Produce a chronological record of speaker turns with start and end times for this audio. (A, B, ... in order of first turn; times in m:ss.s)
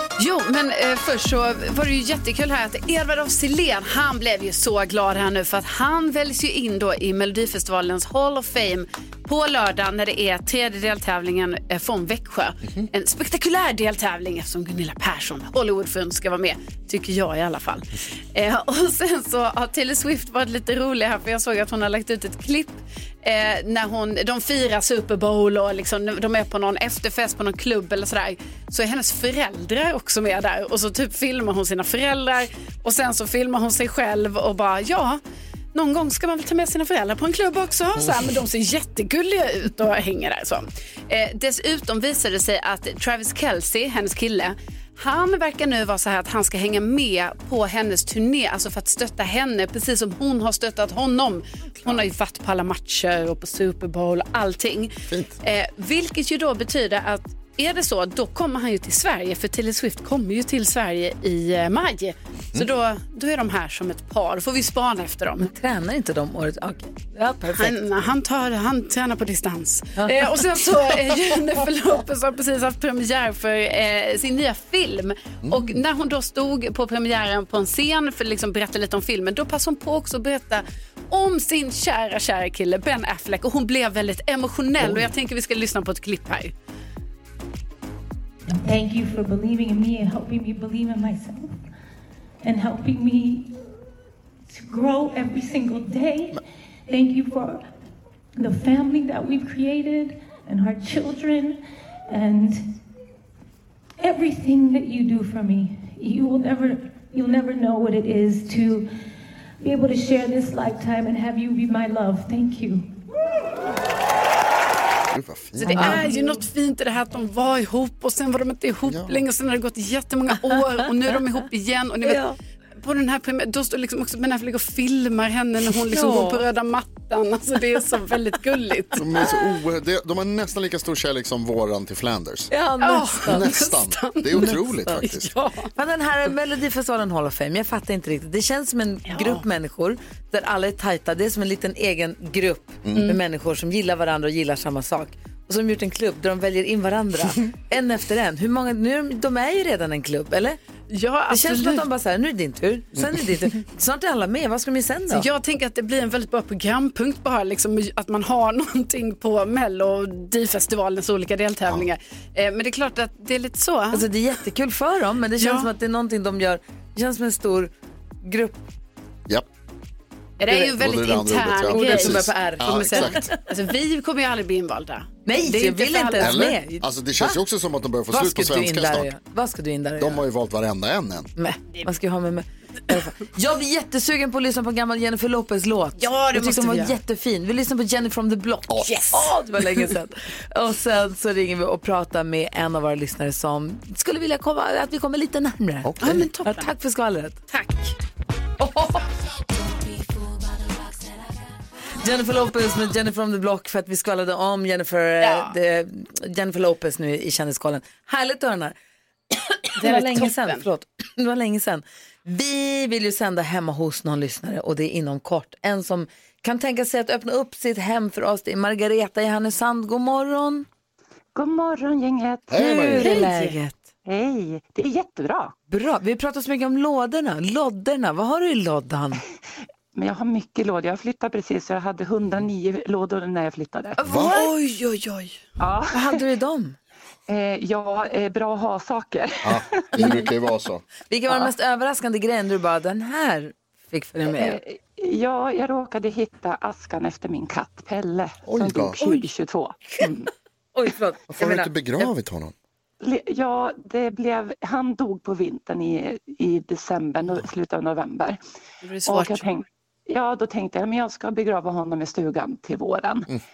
0:00.2-0:35.2 A
0:35.7-1:05.5 A
0:55.1-0:55.4 B
1:05.4-1:07.8 C
1:07.5-1:26.5 A
1:10.0-1:10.3 C
1:24.8-1:25.1 B
1:28.6-1:31.5 D
1:32.4-1:33.5 D
1:34.5-1:36.3 D
1:36.9-1:37.6 D
1:38.4-1:41.6 D
1:42.1-1:42.6 D
1:44.0-1:48.9 D
1:49.6-1:52.9 D
1:55.1-1:56.0 B
1:55.6-2:02.2 A
1:55.7-1:56.1 C
1:58.8-1:59.2 B
2:02.0-2:02.4 C
2:02.8-2:09.3 A
2:05.8-2:06.4 C
2:09.0-2:12.5 B
2:12.5-2:13.6 C
2:12.8-2:15.7 A
2:13.2-2:15.3 B
2:14.3-2:15.1 C
2:15.7-2:30.6 C
2:19.1-2:19.4 A
2:22.8-2:23.1 B
2:22.9-2:23.2 A
2:30.9-2:31.8 A
2:31.3-2:35.3 C
2:35.1-2:44.0 A
2:43.9-2:48.6 C
2:45.4-2:45.7 A
2:50.4-2:56.5 A
2:50.4-2:50.8 C
2:50.7-2:53.3 B
2:51.7-2:53.4 C
2:55.2-2:57.4 C
2:56.2-2:59.1 B
2:58.1-3:00.2 C
3:00.0-3:01.3 B
3:01.4-3:17.4 C
3:06.0-3:07.0 A
3:08.7-3:09.0 B
3:08.8-3:09.8 A
3:15.8-3:16.3 B
3:16.0-3:16.7 A
3:17.5-3:17.9 A
3:18.6-3:19.1 C
3:22.0-3:28.8 C
3:25.2-3:25.5 A
3:29.3-3:40.7 C
3:29.8-3:30.6 A
3:41.3-3:42.6 E
3:42.5-3:43.2 B
3:42.5-3:43.8 C
3:43.0-3:43.6 A
3:44.0-3:45.5 E
3:45.7-3:49.2 C
3:49.9-3:54.0 E
3:54.0-3:54.8 C
3:54.0-3:54.4 B
3:54.3-3:55.3 A
3:55.6-3:56.2 E
3:55.9-3:56.8 C
3:57.3-4:00.2 E
3:59.4-4:00.8 B
4:01.1-4:04.6 C
4:04.3-4:10.3 E
4:08.4-4:09.0 B
4:10.7-4:12.1 C
4:11.3-4:12.5 B
4:13.0-4:18.4 E
4:18.8-4:19.4 A
4:19.0-4:23.3 E